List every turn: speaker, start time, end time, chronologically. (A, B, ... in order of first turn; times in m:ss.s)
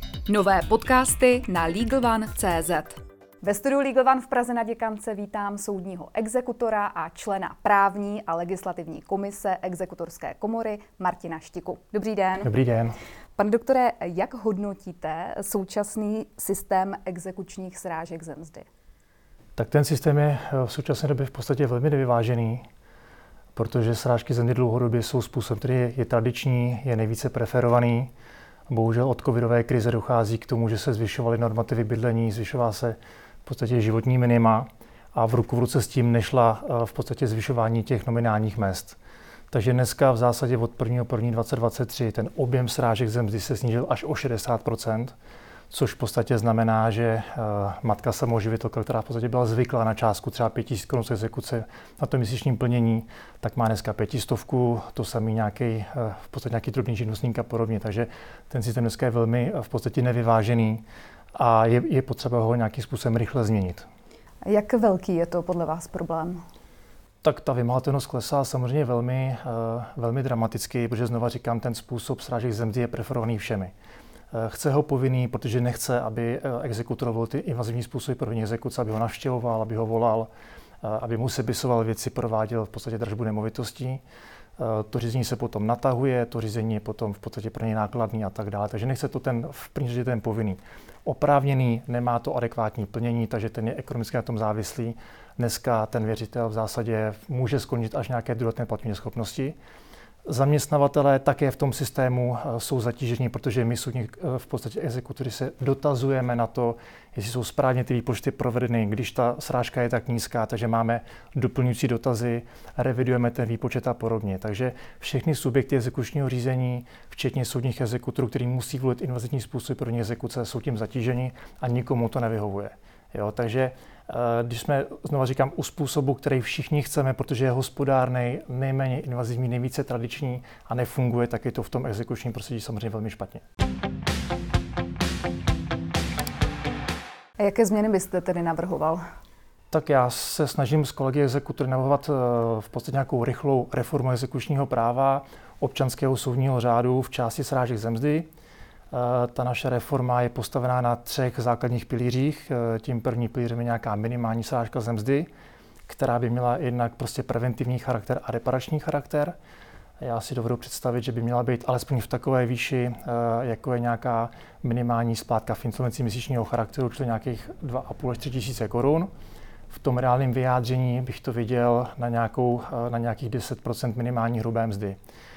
0:00.2-0:12.5 A
0:12.4-0:13.0 B
0:13.4-0:18.6 A
0:19.6-0:22.6 B
0:23.5-0:28.1 B
0:28.7-0:39.0 B
0:39.5-0:45.1 B
0:45.7-1:00.8 B
1:01.4-1:03.8 B
1:04.4-1:06.4 A
1:07.2-1:13.7 B
1:14.3-1:20.3 B
1:20.8-1:24.0 B
1:24.6-1:39.6 B
1:40.2-2:13.4 B
2:17.4-2:19.0 A
2:19.7-2:28.3 B
2:28.9-2:35.3 B
2:35.9-2:39.4 B
2:40.0-2:49.1 B
2:49.7-2:55.0 B